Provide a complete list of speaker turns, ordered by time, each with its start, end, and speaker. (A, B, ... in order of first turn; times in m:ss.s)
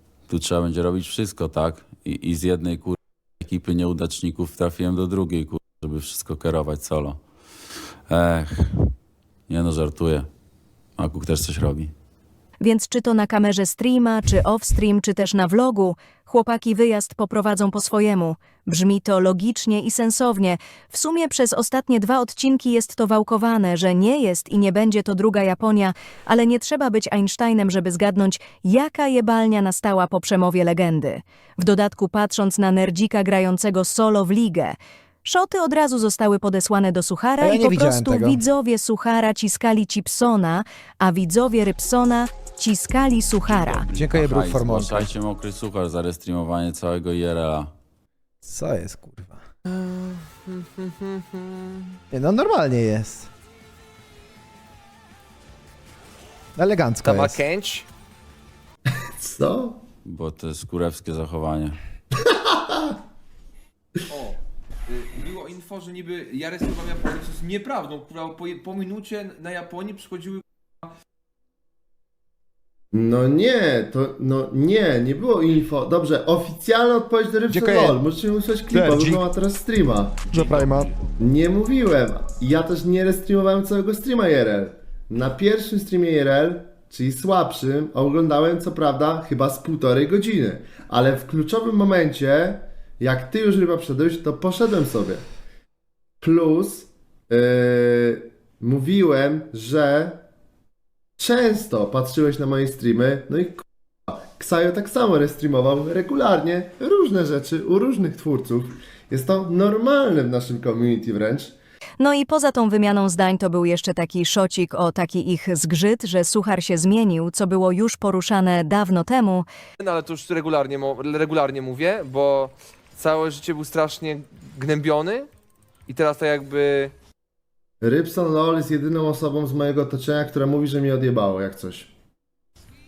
0:00.3-0:07.2 A
0:08.1-0:08.9 A
0:09.5-0:10.3 A
0:11.0-0:11.9 A
0:12.6-0:43.9 B
0:37.4-0:38.4 C
0:43.5-0:47.7 A
0:43.9-0:45.1 C
0:48.4-0:49.4 C
0:50.9-0:51.2 D
0:52.1-0:53.3 C
0:56.6-0:57.4 C
0:57.1-0:57.8 D
0:59.2-0:59.8 E
1:00.0-1:01.8 A
1:02.3-1:02.9 E
1:04.1-1:04.4 D
1:04.9-1:10.4 D
1:12.9-1:20.3 E
1:17.5-1:18.0 C
1:18.7-1:19.2 C
1:20.3-1:20.9 C
1:21.2-1:35.2 E
1:36.2-1:40.2 E
1:41.2-1:51.6 E
1:52.0-1:59.5 B
1:59.8-2:05.3 D
2:05.9-2:06.9 D
2:07.8-2:11.9 E